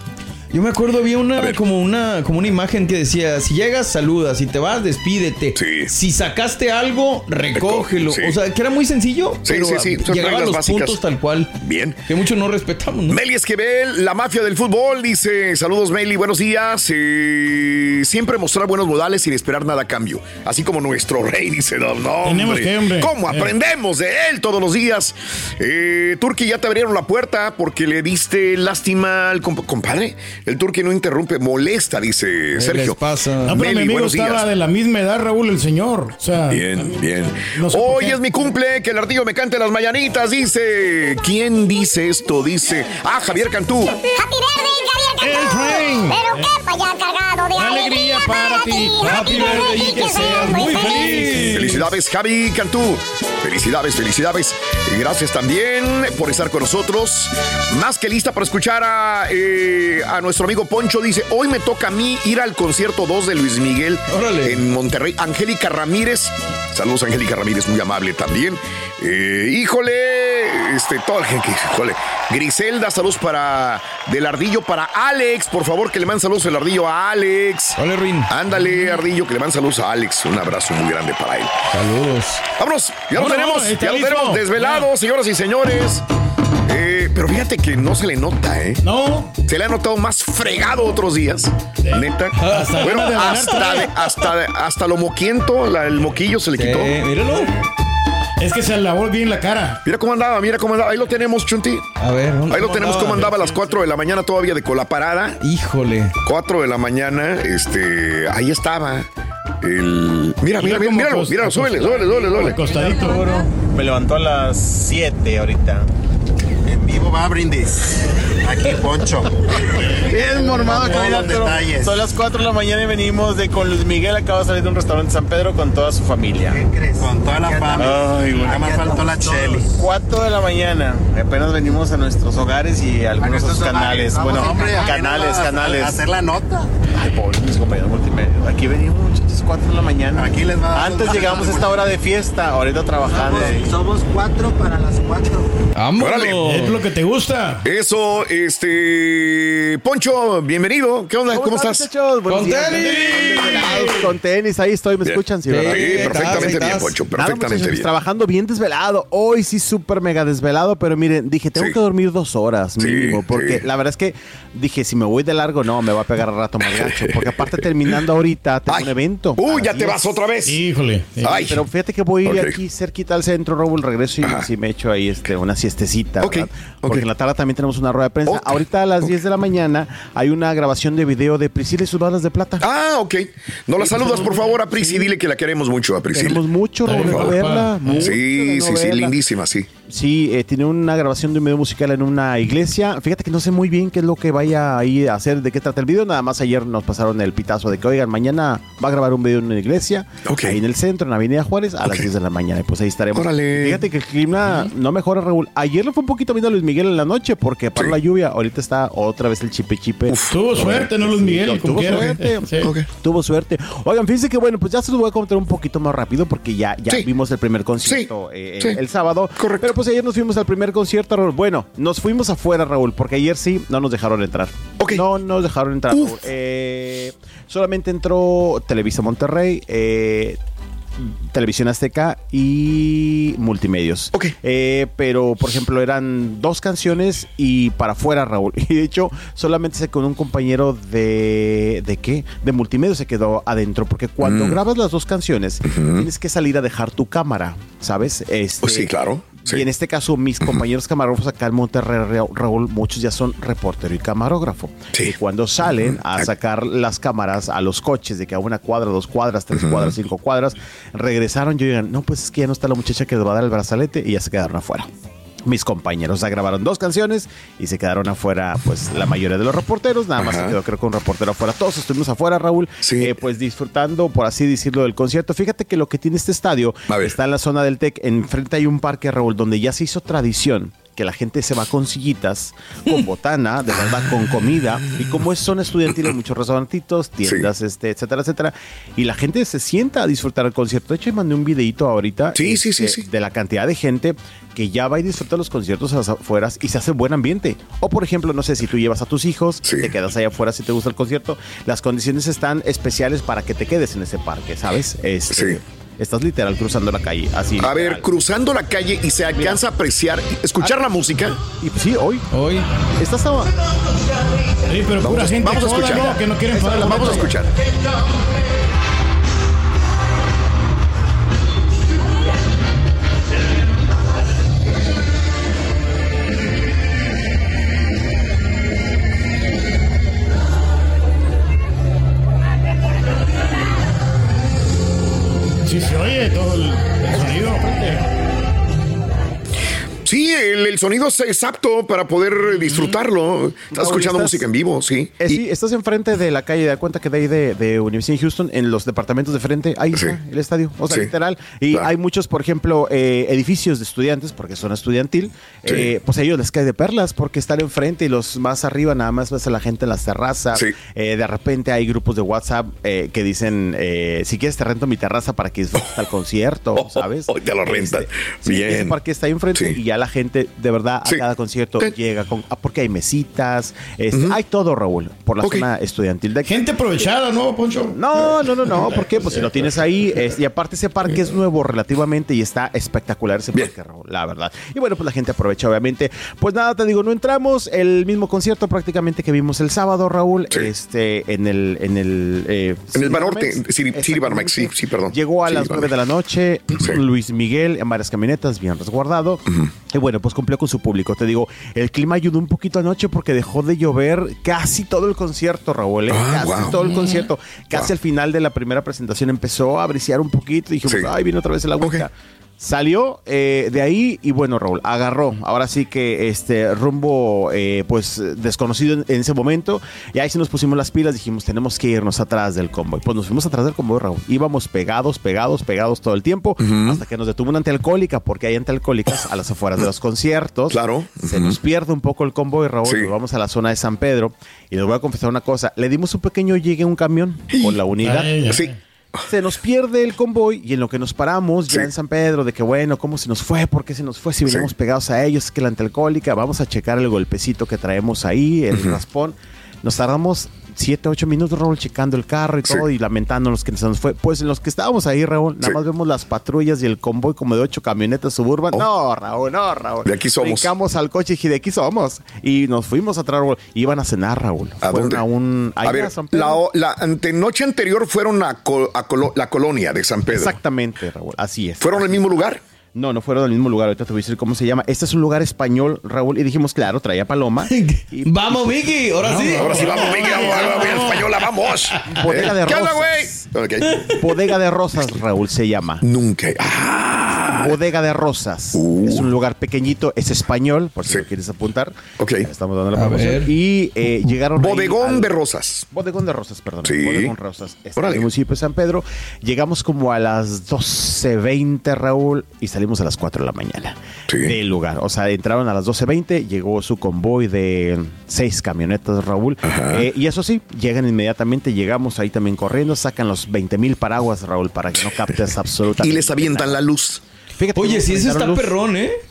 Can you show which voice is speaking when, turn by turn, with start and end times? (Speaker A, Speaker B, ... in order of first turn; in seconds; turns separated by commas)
Speaker A: 0.5-11.5, Speaker B: 5.5-5.9, Speaker B: 7.5-8.3, Speaker B: 9.4-11.0, Speaker B: 11.6-12.0, Speaker A: 12.1-13.2, Speaker B: 13.1-33.0, Speaker C: 22.2-23.5, Speaker A: 32.5-33.6, Speaker C: 33.4-37.0, Speaker B: 33.5-34.5, Speaker B: 36.5-44.0, Speaker C: 37.5-38.2, Speaker D: 44.1-51.3, Speaker C: 45.2-46.5, Speaker C: 47.5-51.7, Speaker A: 49.0-49.4, Speaker A: 50.1-51.8, Speaker B: 51.5-81.6, Speaker A: 64.1-64.6, Speaker A: 77.8-78.3, Speaker A: 81.7-82.4, Speaker B: 82.5-86.0, Speaker C: 83.1-84.5, Speaker B: 86.7-88.8, Speaker C: 88.8-89.3, Speaker B: 89.5-97.0, Speaker C: 91.8-93.9, Speaker A: 92.4-93.7, Speaker A: 96.5-97.5, Speaker C: 98.4-99.8, Speaker B: 99.8-101.9, Speaker A: 102.0-103.4, Speaker B: 102.5-105.4, Speaker A: 105.4-106.1, Speaker B: 106.2-109.1, Speaker B: 109.6-112.7, Speaker C: 110.6-113.5, Speaker E: 112.8-115.9, Speaker F: 116.6-122.0, Speaker E: 119.9-126.6, Speaker C: 120.5-121.1, Speaker F: 126.5-129.7, Speaker E: 127.4-136.0, Speaker F: 133.2-136.7, Speaker E: 136.9-143.7, Speaker F: 140.2-141.9, Speaker F: 143.1-145.5, Speaker A: 145.8-146.8, Speaker B: 146.0-146.4, Speaker C: 146.4-147.6, Speaker B: 147.6-151.9, Speaker E: 151.3-170.0, Speaker A: 152.3-154.1, Speaker C: 152.7-153.7, Speaker B: 155.0-157.9, Speaker A: 155.5-156.9, Speaker B: 162.8-163.6, Speaker B: 166.7-167.9, Speaker B: 168.7-170.6, Speaker C: 170.4-171.4, Speaker B: 171.2-171.6, Speaker E: 171.2-182.6, Speaker B: 172.2-172.6, Speaker B: 174.2-174.5, Speaker B: 176.2-177.1, Speaker B: 178.2-179.1, Speaker B: 182.6-186.4, Speaker E: 183.8-185.1, Speaker E: 186.1-189.1, Speaker C: 186.8-188.1, Speaker B: 187.9-189.7, Speaker E: 189.9-230.4, Speaker B: 200.2-200.6, Speaker B: 203.1-203.8, Speaker B: 210.1-210.7, Speaker C: 210.3-212.7, Speaker B: 212.6-212.9, Speaker B: 217.8-218.8, Speaker B: 219.3-219.7, Speaker B: 224.8-225.0, Speaker E: 231.0-248.9, Speaker B: 244.2-244.6, Speaker B: 245.7-246.1, Speaker B: 248.6-249.7, Speaker E: 249.4-264.9, Speaker B: 255.7-256.3, Speaker B: 259.5-259.9, Speaker E: 265.4-308.1, Speaker B: 270.2-270.6, Speaker B: 272.8-273.1, Speaker B: 276.9-277.1, Speaker B: 292.3-293.0, Speaker B: 299.6-299.9, Speaker B: 305.3-305.6, Speaker B: 307.6-311.4, Speaker E: 309.4-309.6, Speaker E: 311.4-312.3, Speaker A: 312.3-312.6, Speaker E: 313.0-313.5, Speaker C: 314.7-317.3, Speaker B: 315.0-317.5, Speaker E: 316.5-317.3, Speaker C: 335.6-338.0, Speaker E: 337.1-338.0, Speaker B: 340.0-345.4, Speaker E: 343.7-344.5, Speaker E: 345.2-376.7, Speaker B: 366.7-368.9, Speaker B: 374.1-374.4, Speaker B: 375.4-375.6, Speaker C: 376.4-378.5, Speaker E: 377.9-438.5, Speaker C: 379.1-379.6, Speaker B: 392.9-395.9, Speaker B: 406.1-406.8, Speaker C: 406.8-407.2, Speaker B: 410.8-411.1, Speaker B: 411.8-412.1, Speaker B: 426.6-427.0, Speaker B: 430.7-431.6, Speaker B: 432.8-433.1, Speaker B: 437.5-437.8, Speaker C: 438.0-438.7, Speaker B: 438.4-438.7, Speaker E: 439.3-466.6, Speaker B: 444.4-444.7, Speaker B: 448.7-449.0, Speaker B: 460.0-460.7, Speaker B: 464.8-465.2, Speaker B: 465.8-470.6, Speaker E: 470.3-472.2, Speaker B: 471.8-472.6, Speaker E: 472.9-479.4, Speaker A: 477.7-480.0, Speaker C: 479.2-481.3, Speaker B: 479.6-484.2, Speaker E: 482.1-483.5, Speaker E: 484.1-486.0, Speaker B: 486.0-487.8, Speaker E: 487.5-495.3, Speaker B: 488.7-489.3, Speaker B: 492.2-492.5, Speaker A: 492.9-493.5, Speaker B: 494.6-495.9, Speaker E: 495.9-516.8, Speaker B: 496.8-497.3, Speaker B: 497.9-498.3, Speaker B: 504.3-504.5, Speaker B: 509.6-510.1, Speaker B: 516.0-517.2, Speaker E: 517.6-518.7, Speaker A: 517.7-519.1